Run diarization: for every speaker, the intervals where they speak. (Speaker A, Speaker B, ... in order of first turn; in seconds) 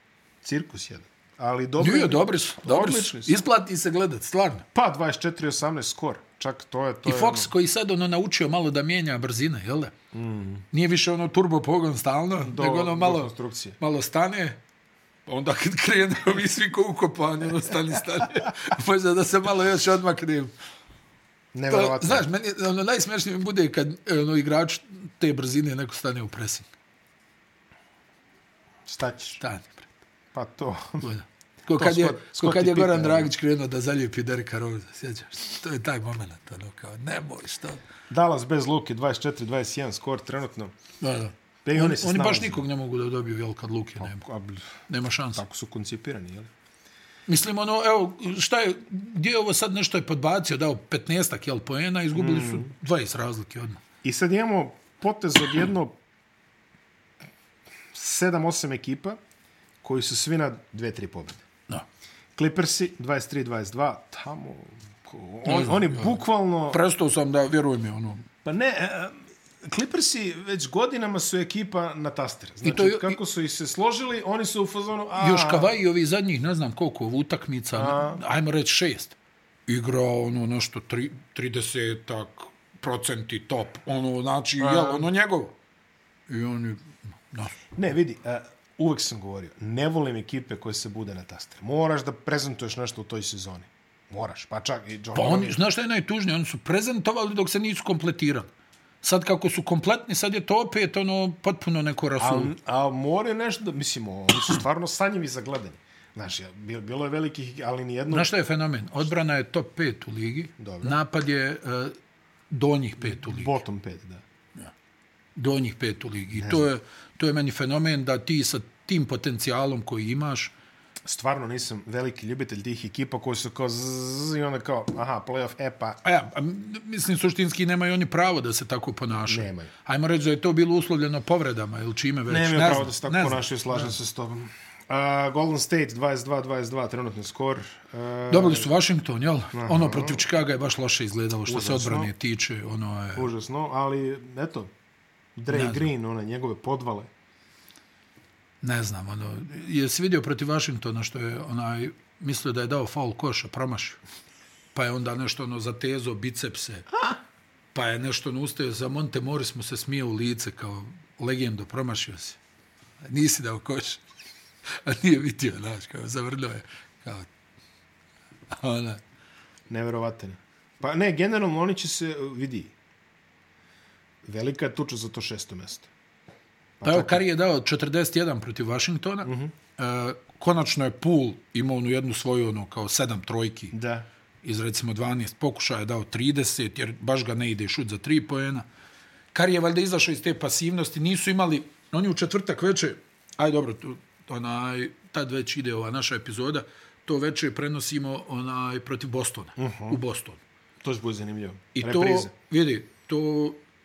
Speaker A: 0.4-3.4, 4.7-7.5, 10.1-10.6, 12.4-13.8, 21.5-22.3, 28.9-29.4, 30.3-31.1, 31.7-33.3, 38.1-40.7, 41.6-42.6, 44.0-44.7, 45.3-46.5, 52.1-52.7, 54.0-55.9, 57.9-59.2, 59.8-61.4, 62.4-66.8, 68.4-75.7, 77.7-78.2, 84.6-85.1, 87.7-95.6, 102.2-108.3, 110.6-111.0, 113.0-114.2, 116.3-116.7, 121.0-126.0, 129.3-129.7, 132.3-138.7, 139.5-140.2, 141.4-142.1, 143.1-144.7, 145.3-147.1, 169.7-172.7, 174.2-175.9, 176.8-177.2, 179.2-179.5, 183.7-184.1, 199.6-200.0, 200.8-202.3
Speaker B: 1.8-4.6, 7.0-9.9, 10.7-14.6, 15.3-20.5, 21.7-26.7, 29.4-29.9, 31.0-37.8, 41.0-44.2, 44.9-45.4, 47.3-53.8, 65.4-68.2, 72.6-73.2, 75.2-85.5, 86.3-87.6, 95.1-98.5, 99.0-102.5, 108.1-112.0, 112.5-113.6, 115.3-120.5, 126.0-133.9, 138.3-143.3, 145.5-145.9, 148.6-154.0, 154.7-156.9, 157.7-162.4, 163.0-164.0, 164.8-167.3, 168.5-169.0, 176.8-183.7, 184.4-188.7, 189.3-200.4, 201.7-203.6